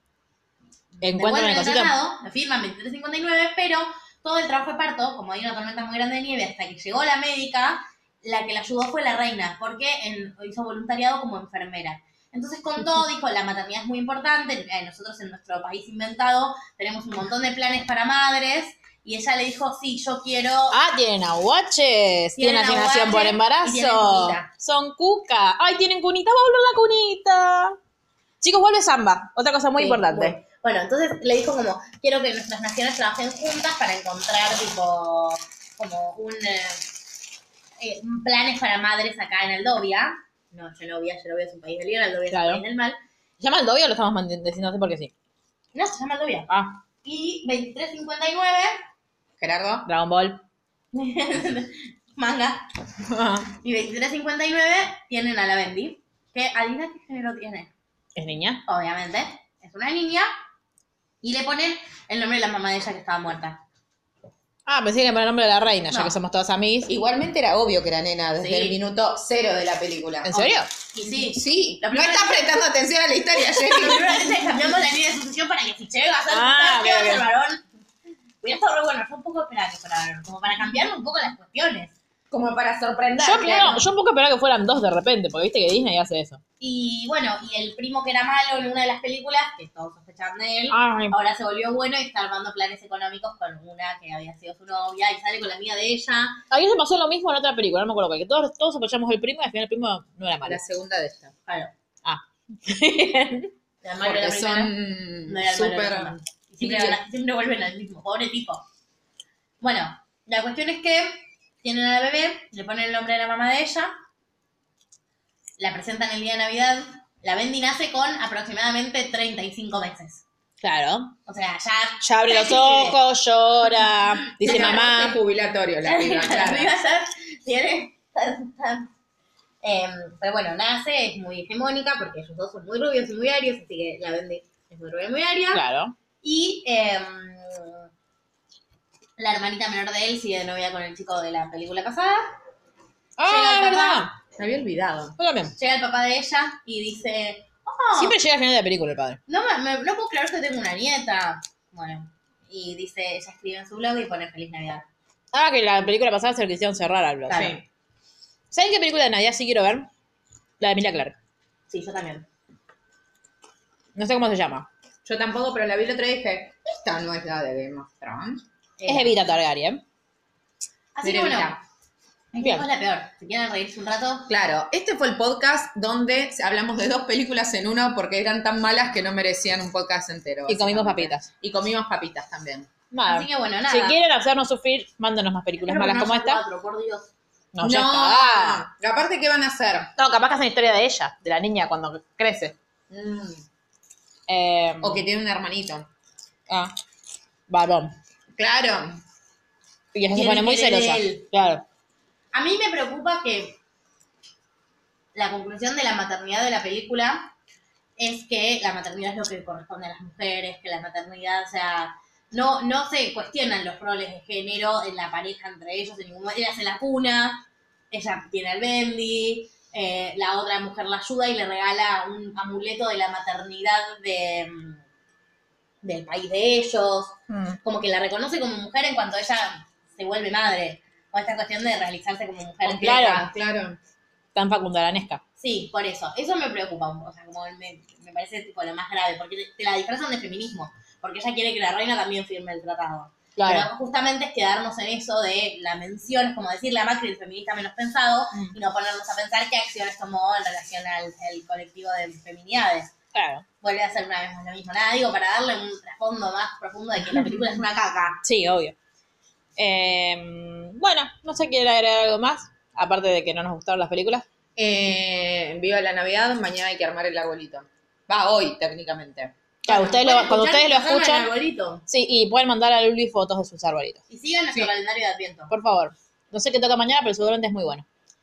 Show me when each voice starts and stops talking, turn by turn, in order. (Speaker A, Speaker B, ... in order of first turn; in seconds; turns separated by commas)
Speaker A: 1.0-1.9, Speaker B: 1.0-20.8, Speaker A: 20.7-27.8, Speaker B: 22.4-24.5, Speaker A: 28.4-30.4, Speaker B: 29.8-36.9, Speaker B: 37.8-43.0, Speaker A: 42.3-42.6, Speaker A: 43.4-45.1, Speaker B: 45.7-46.5, Speaker A: 46.5-46.8, Speaker B: 47.0-48.8, Speaker C: 49.4-49.9, Speaker A: 49.8-50.4, Speaker B: 50.9-52.7, Speaker A: 53.1-53.5, Speaker B: 53.6-57.7, Speaker A: 58.1-58.6, Speaker B: 58.6-60.3, Speaker B: 61.2-63.6, Speaker A: 64.7-66.9, Speaker B: 65.9-66.2, Speaker C: 66.9-70.4, Speaker B: 68.4-68.8, Speaker A: 70.3-70.7, Speaker B: 70.3-72.6, Speaker C: 71.1-74.3, Speaker B: 73.4-77.6, Speaker A: 76.3-77.2, Speaker B: 78.4-81.9, Speaker C: 82.3-83.8, Speaker A: 83.2-86.4, Speaker B: 86.6-96.4, Speaker A: 90.7-91.2, Speaker A: 96.5-100.6, Speaker C: 100.4-101.3, Speaker A: 102.0-103.5, Speaker B: 103.8-104.7, Speaker C: 104.0-107.0, Speaker B: 105.2-108.6, Speaker B: 109.6-114.0, Speaker B: 115.6-120.2, Speaker A: 120.6-121.2, Speaker B: 121.2-123.0, Speaker A: 122.0-125.2, Speaker C: 124.4-126.7, Speaker B: 124.4-124.8, Speaker B: 125.8-128.9, Speaker B: 129.6-135.6, Speaker A: 135.5-135.9, Speaker B: 136.2-137.8, Speaker B: 139.2-142.3, Speaker A: 143.2-144.1, Speaker B: 143.2-144.1, Speaker C: 144.3-145.1, Speaker A: 145.2-145.5, Speaker B: 145.6-148.2, Speaker A: 147.9-149.2, Speaker B: 149.3-154.8, Speaker A: 155.3-157.5, Speaker B: 157.3-157.6, Speaker A: 158.5-159.9, Speaker A: 160.6-161.2, Speaker B: 161.7-162.3, Speaker A: 163.9-164.7, Speaker C: 165.0-168.4, Speaker B: 168.8-169.1, Speaker A: 168.8-169.8, Speaker B: 170.9-171.6, Speaker C: 171.0-171.6, Speaker B: 172.3-174.3, Speaker A: 172.4-172.7, Speaker C: 174.3-182.7, Speaker A: 180.5-181.2, Speaker A: 182.9-186.4, Speaker B: 183.0-184.0, Speaker B: 185.6-187.1, Speaker A: 187.5-188.6, Speaker C: 187.6-189.9, Speaker A: 190.0-192.6, Speaker C: 192.9-193.4, Speaker A: 194.3-195.0, Speaker C: 194.8-195.9, Speaker A: 197.5-197.9, Speaker C: 198.4-199.0, Speaker A: 199.9-201.6, Speaker B: 200.1-201.3, Speaker B: 202.3-203.6, Speaker B: 205.1-207.3, Speaker B: 208.0-224.8, Speaker B: 225.8-233.3, Speaker A: 227.3-227.6, Speaker A: 232.6-233.3, Speaker C: 233.3-233.8, Speaker A: 234.3-235.2, Speaker B: 235.4-252.9, Speaker A: 243.3-243.7, Speaker A: 253.1-253.4, Speaker B: 253.6-258.2, Speaker A: 258.2-258.8, Speaker A: 259.6-264.2, Speaker C: 264.6-269.3, Speaker A: 269.6-271.3, Speaker B: 269.7-271.8, Speaker A: 271.9-274.0, Speaker B: 274.1-275.5, Speaker A: 275.5-277.8